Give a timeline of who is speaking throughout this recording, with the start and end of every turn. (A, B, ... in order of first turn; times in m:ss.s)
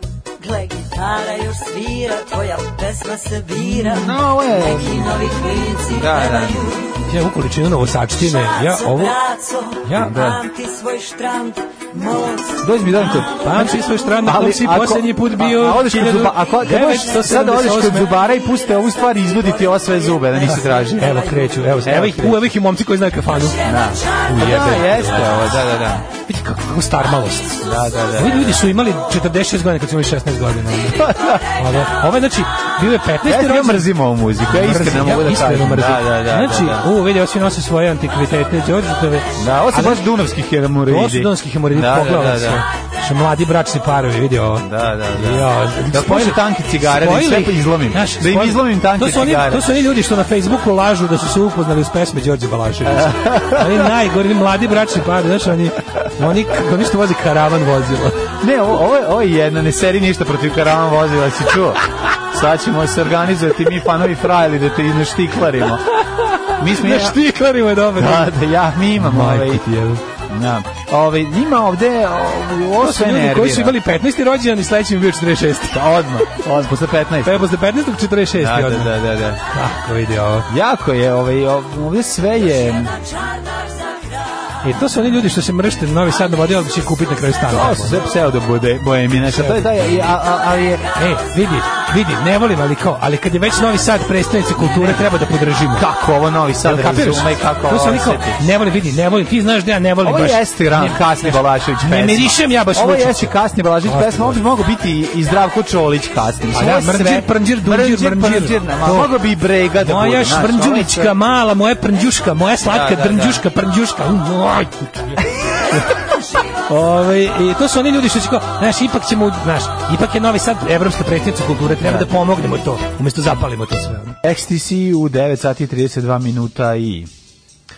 0:00.4-0:07.0 A
0:03.7-0:05.2 B
0:05.9-0:06.7 B
0:07.0-0:09.2 C
0:08.2-0:13.4 A
0:09.8-0:10.2 C
0:10.0-0:10.4 B
0:12.6-0:22.5 B
0:13.4-0:18.1 C
0:18.0-0:21.5 A
0:20.5-0:23.6 C
0:23.6-0:26.1 B
0:24.2-0:25.6 C
0:26.2-0:33.9 C
0:27.6-0:28.6 B
0:30.9-0:31.4 B
0:33.2-0:36.9 B
0:34.5-0:40.0 C
0:39.4-0:42.6 B
0:40.8-0:58.3 C
0:44.6-0:49.6 B
0:52.8-0:53.9 B
0:58.4-1:05.9 B
1:05.9-1:08.4 C
1:06.6-1:07.2 B
1:07.9-1:09.6 B
1:09.0-1:10.0 C
1:10.2-1:13.8 B
1:12.8-1:16.0 C
1:15.7-1:17.5 B
1:17.2-1:20.5 C
1:18.4-1:19.4 B
1:20.5-1:23.0 B
1:24.6-1:28.0 C
1:27.5-1:30.8 B
1:29.2-1:30.1 C
1:31.0-1:35.9 C
1:34.6-1:35.0 B
1:35.7-1:38.4 B
1:36.6-1:44.4 C
1:40.0-1:51.1 B
1:46.5-1:49.1 C
1:49.8-1:56.0 C
1:52.6-1:53.4 B
1:56.6-2:04.2 C
2:01.8-2:02.1 B
2:04.2-2:07.1 B